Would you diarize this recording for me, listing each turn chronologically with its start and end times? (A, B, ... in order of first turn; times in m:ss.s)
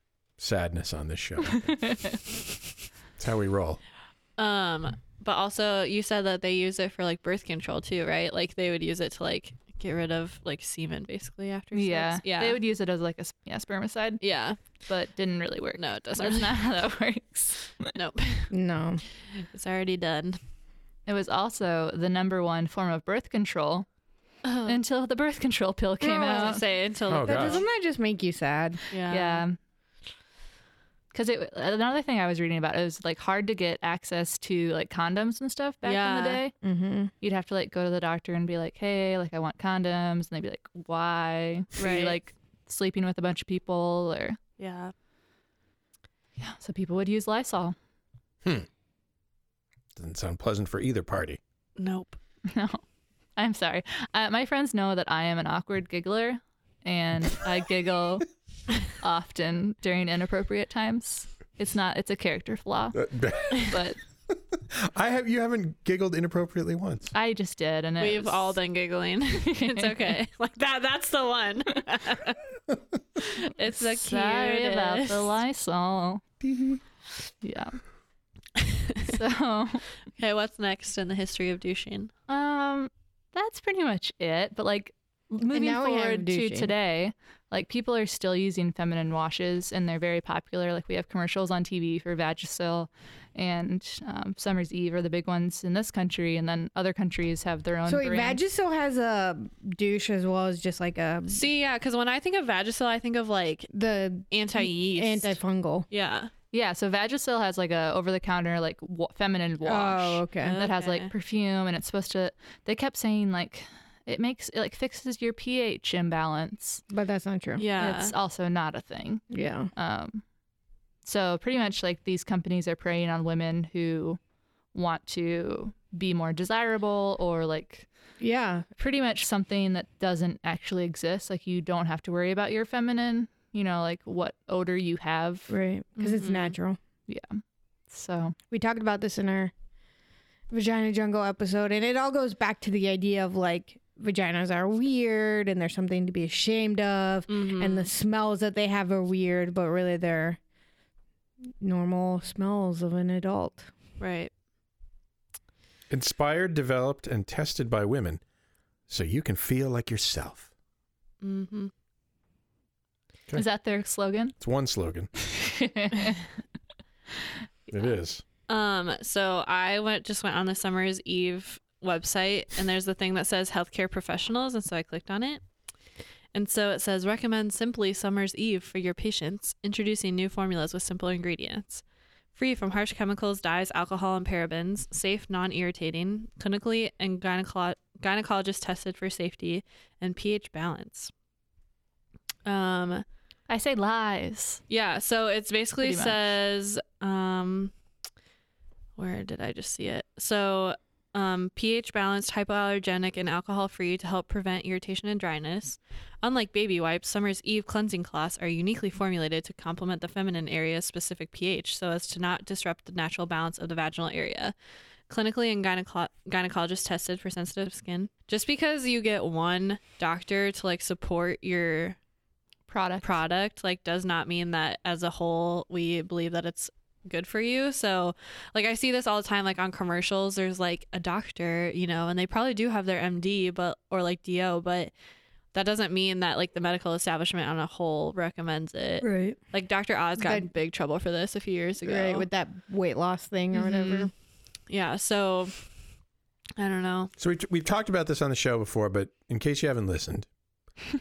0:00.4-0:02.0 A
0:01.6-0:02.2 B
0:03.2-0:03.8 A
0:04.4-0:12.6 C
0:11.7-0:17.9 B
0:14.2-0:14.6 C
0:15.8-0:16.7 C
0:17.9-0:18.5 C
0:18.5-0:19.0 D
0:19.3-0:20.4 C
0:21.1-0:23.9 B
0:24.4-0:24.8 C
0:24.7-0:26.6 B
0:26.0-0:28.8 D
0:26.2-0:27.6 C
0:27.1-0:27.6 A
0:28.9-0:29.4 C
0:29.1-0:29.6 B
0:31.1-0:36.5 B
0:35.8-0:36.4 C
0:36.6-0:37.1 D
0:37.2-0:44.4 B
0:41.8-0:42.2 C
0:44.6-0:44.9 C
0:46.4-0:47.8 B
0:50.0-0:51.4 A
0:51.8-0:52.2 C
0:52.5-0:52.8 B
0:53.4-0:58.2 B
0:58.9-1:03.0 B
1:02.9-1:03.8 A
1:03.5-1:04.0 B
1:04.6-1:07.1 A
1:07.1-1:08.6 B
1:08.0-1:12.4 C
1:09.4-1:10.1 B
1:13.2-1:15.4 C
1:13.7-1:16.2 B
1:17.4-1:17.8 B
1:18.6-1:19.0 C
1:19.0-1:19.8 B
1:20.2-1:22.1 C
1:22.3-1:38.4 B
1:25.5-1:26.7 D
1:37.9-1:41.4 D
1:41.3-1:43.7 C
1:43.7-1:45.9 D
1:44.3-1:45.4 C
1:45.9-1:46.3 C
1:46.5-1:56.8 B
1:49.6-1:50.6 D
1:50.4-1:51.1 C
1:56.9-1:57.6 D
1:57.6-1:58.1 C
1:57.8-1:59.2 B
1:59.3-1:59.7 D
1:59.8-2:00.2 B
2:01.0-2:04.2 B
2:04.7-2:07.9 B
2:08.2-2:08.7 D
2:08.8-2:15.5 B
2:15.5-2:16.8 D
2:16.0-2:16.6 C
2:17.1-2:18.4 B
2:18.5-2:19.5 D
2:20.5-2:30.4 D
2:27.3-2:27.9 C
2:31.6-2:33.7 D
2:34.0-2:34.3 C
2:35.9-2:38.2 A
2:38.9-2:40.5 A
2:41.2-2:41.7 C
2:43.3-2:44.4 B
2:44.4-2:45.1 A
2:45.3-2:46.2 B
2:47.7-2:48.2 A
2:48.5-2:55.4 C
2:56.3-3:01.8 C
3:02.4-3:11.1 C
3:12.4-3:13.0 C
3:13.5-3:14.6 B
3:14.7-3:17.7 C
3:15.8-3:16.2 B
3:19.0-3:34.5 C
3:35.1-3:42.0 C
3:42.7-3:43.2 B
3:43.0-3:54.9 C
3:55.5-4:02.3 C
3:59.0-3:59.4 D
4:00.2-4:00.5 D
4:01.8-4:04.1 D
4:03.5-4:04.1 C
4:04.7-4:05.6 C
4:06.6-4:07.1 C
4:07.2-4:10.3 A